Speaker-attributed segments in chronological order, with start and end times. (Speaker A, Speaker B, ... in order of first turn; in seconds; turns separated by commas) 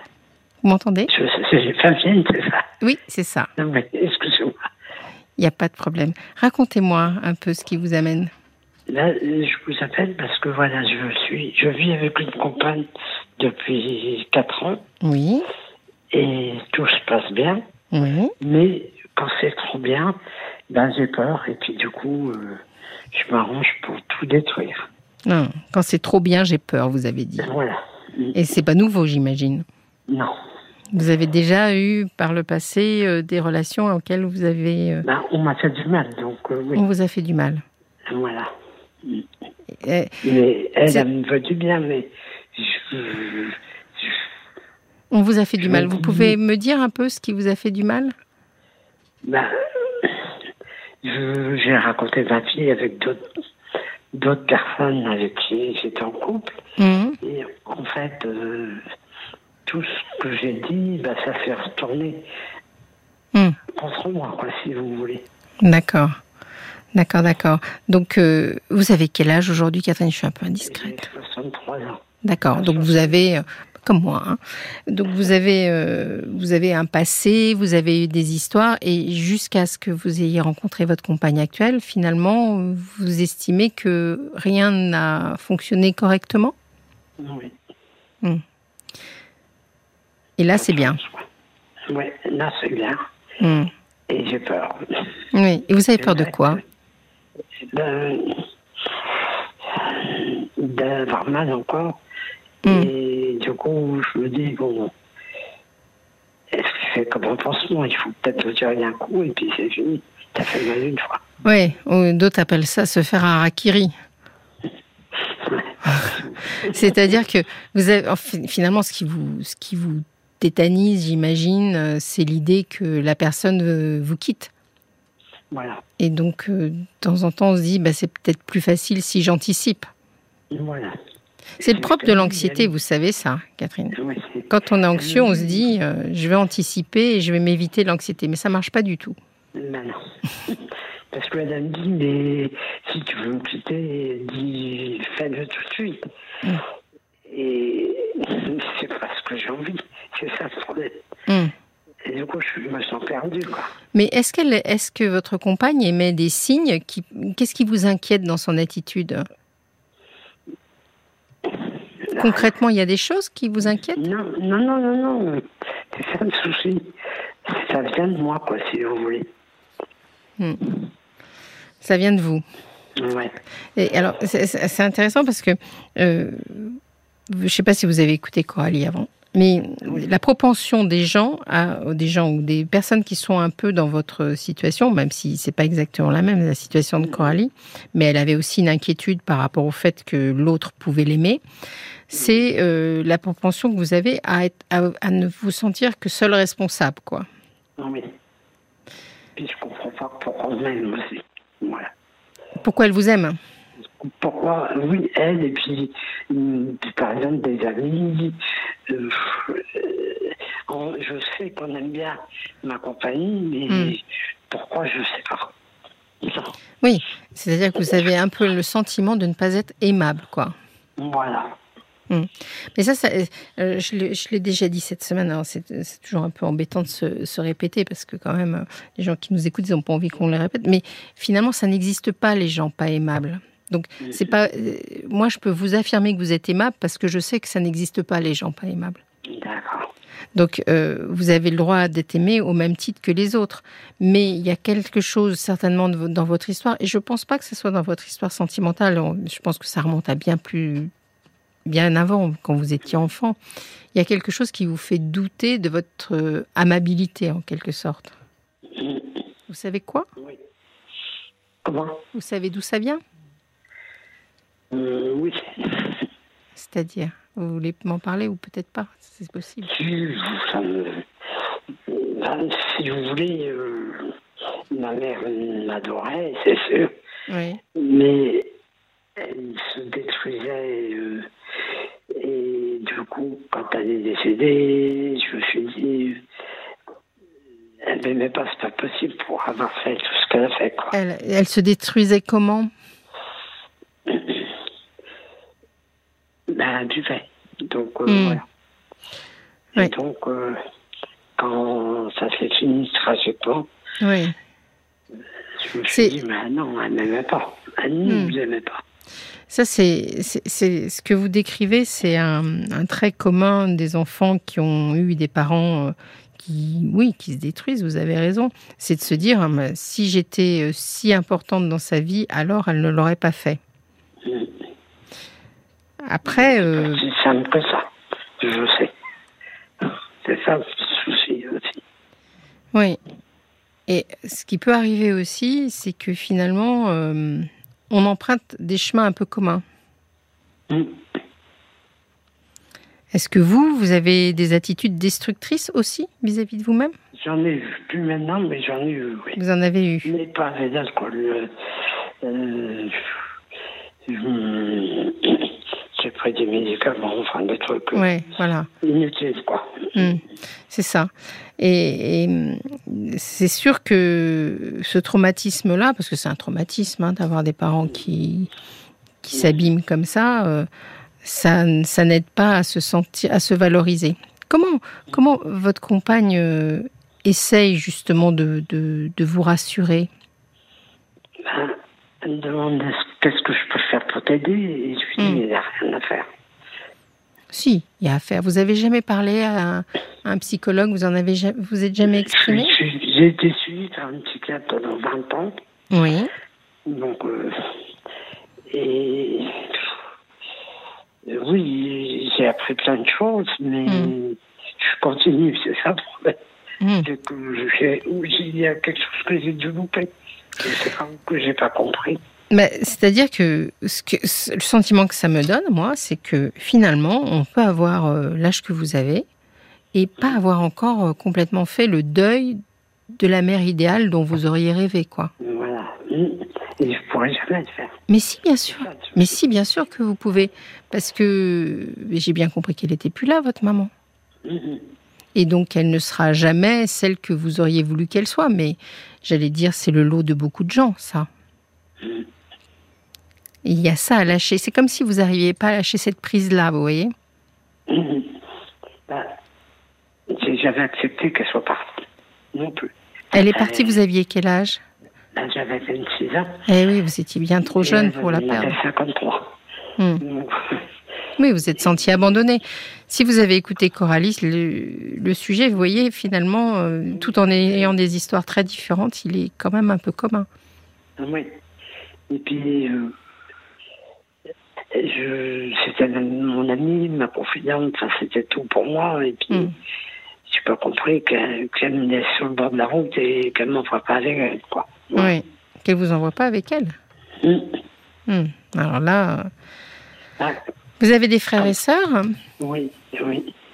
Speaker A: 0.6-1.1, Speaker B: 1.1-2.6, Speaker A: 2.8-3.5, Speaker B: 3.6-4.5, Speaker A: 5.4-8.3, Speaker B: 8.9-12.9, Speaker B: 13.4-14.8, Speaker A: 15.0-15.5, Speaker B: 16.1-17.6, Speaker A: 17.9-18.3, Speaker B: 18.4-20.1, Speaker B: 20.7-22.6, Speaker B: 23.1-24.9, Speaker A: 25.2-27.5, Speaker B: 27.4-28.4, Speaker A: 28.3-29.6, Speaker B: 30.1-30.3, Speaker A: 30.9-35.0, Speaker B: 35.0-36.8, Speaker A: 36.7-37.6, Speaker B: 38.1-38.5, Speaker A: 39.8-40.2, Speaker B: 40.2-44.2, Speaker A: 45.1-48.1, Speaker B: 45.6-46.4, Speaker B: 49.2-50.2, Speaker B: 51.0-53.3, Speaker B: 54.1-56.6, Speaker A: 56.8-57.1, Speaker B: 57.2-58.8, Speaker B: 59.6-62.2, Speaker B: 63.8-65.2, Speaker A: 65.6-66.2, Speaker A: 66.9-71.1, Speaker B: 70.6-72.0, Speaker A: 72.2-86.5, Speaker B: 72.5-73.2, Speaker B: 87.2-87.5, Speaker A: 90.4-91.0, Speaker B: 90.5-91.2, Speaker B: 91.9-93.0, Speaker A: 93.4-93.7, Speaker B: 94.1-94.8, Speaker A: 95.3-96.6, Speaker B: 96.0-96.6, Speaker B: 97.7-98.4, Speaker B: 99.7-102.0, Speaker B: 102.6-104.9, Speaker B: 106.5-111.2, Speaker A: 111.4-113.9, Speaker B: 115.4-117.0, Speaker A: 115.9-124.5, Speaker B: 125.5-125.8, Speaker A: 126.0-129.9, Speaker B: 130.5-130.9, Speaker A: 131.6-133.9, Speaker B: 131.6-132.7, Speaker B: 133.9-135.7, Speaker A: 134.5-139.2, Speaker B: 139.6-140.6, Speaker B: 141.1-146.0, Speaker B: 147.3-151.0, Speaker A: 151.3-151.5, Speaker B: 152.1-153.7, Speaker A: 153.9-159.2, Speaker B: 162.1-162.5, Speaker A: 162.2-164.0, Speaker B: 163.9-166.9, Speaker B: 167.5-169.3, Speaker A: 171.8-172.4, Speaker B: 173.0-173.3, Speaker A: 173.8-176.8, Speaker A: 177.3-191.4, Speaker B: 187.0-187.3, Speaker A: 192.1-197.2, Speaker B: 192.1-192.4, Speaker B: 197.8-198.0, Speaker B: 199.4-201.9, Speaker A: 202.6-203.4, Speaker B: 204.0-208.4, Speaker B: 208.9-215.5, Speaker A: 213.7-214.0, Speaker B: 216.2-216.5, Speaker A: 216.8-220.5, Speaker B: 221.0-221.6, Speaker A: 222.1-239.0, Speaker B: 239.3-239.9, Speaker A: 240.3-250.9, Speaker A: 251.7-253.4, Speaker A: 253.9-258.1, Speaker B: 258.8-259.1, Speaker A: 259.5-260.1, Speaker B: 261.6-262.0, Speaker A: 262.1-263.0, Speaker B: 264.7-266.0, Speaker A: 266.5-269.7, Speaker B: 269.6-271.0, Speaker B: 271.9-274.1, Speaker B: 274.7-276.9, Speaker A: 277.3-277.6, Speaker B: 277.7-278.5, Speaker B: 279.2-281.2, Speaker B: 282.1-286.2, Speaker B: 287.9-290.9, Speaker A: 290.9-292.7, Speaker B: 294.1-294.5, Speaker B: 296.5-298.5, Speaker A: 298.1-298.4, Speaker B: 299.8-300.6, Speaker B: 301.4-303.7, Speaker A: 304.0-304.4, Speaker B: 305.6-308.8, Speaker A: 305.9-306.2, Speaker A: 308.0-308.4, Speaker A: 309.5-323.6, Speaker B: 324.2-324.5, Speaker A: 326.1-327.1, Speaker B: 326.2-327.9, Speaker B: 328.4-328.9, Speaker B: 329.9-331.8, Speaker A: 333.9-339.6, Speaker B: 340.7-341.0, Speaker A: 343.1-346.9, Speaker B: 347.2-349.4, Speaker A: 349.4-350.1, Speaker B: 350.0-351.5, Speaker B: 352.2-353.0, Speaker B: 354.1-358.1, Speaker A: 357.9-358.7, Speaker B: 358.8-360.1, Speaker A: 359.9-368.5, Speaker A: 369.2-370.7, Speaker B: 369.4-369.6, Speaker A: 371.2-380.1, Speaker B: 381.4-386.3, Speaker A: 385.2-385.4, Speaker A: 387.5-392.8, Speaker B: 392.2-395.5, Speaker A: 395.9-396.3, Speaker B: 396.9-397.7, Speaker B: 398.7-399.9, Speaker B: 401.3-406.4, Speaker A: 403.9-404.1, Speaker A: 406.8-407.1, Speaker B: 407.0-410.1, Speaker B: 410.6-412.2, Speaker A: 412.5-419.2, Speaker A: 419.9-422.6, Speaker A: 423.1-425.3, Speaker B: 425.4-428.0, Speaker A: 428.1-433.9, Speaker B: 428.7-429.3, Speaker B: 434.4-434.9, Speaker A: 435.3-441.3, Speaker B: 442.0-442.3, Speaker A: 443.6-447.1, Speaker B: 447.9-448.3, Speaker B: 449.1-449.4, Speaker B: 450.3-452.0, Speaker B: 452.5-454.0, Speaker A: 453.3-454.8, Speaker B: 455.3-456.6, Speaker A: 456.7-458.8, Speaker B: 457.8-459.4, Speaker A: 460.0-460.2, Speaker B: 460.2-460.9, Speaker A: 461.4-470.5, Speaker B: 471.2-471.5, Speaker B: 472.3-473.1, Speaker B: 474.9-479.7, Speaker B: 480.4-485.4, Speaker A: 485.1-486.9, Speaker B: 487.4-487.7, Speaker A: 488.3-489.5, Speaker A: 491.0-492.4, Speaker B: 492.6-493.5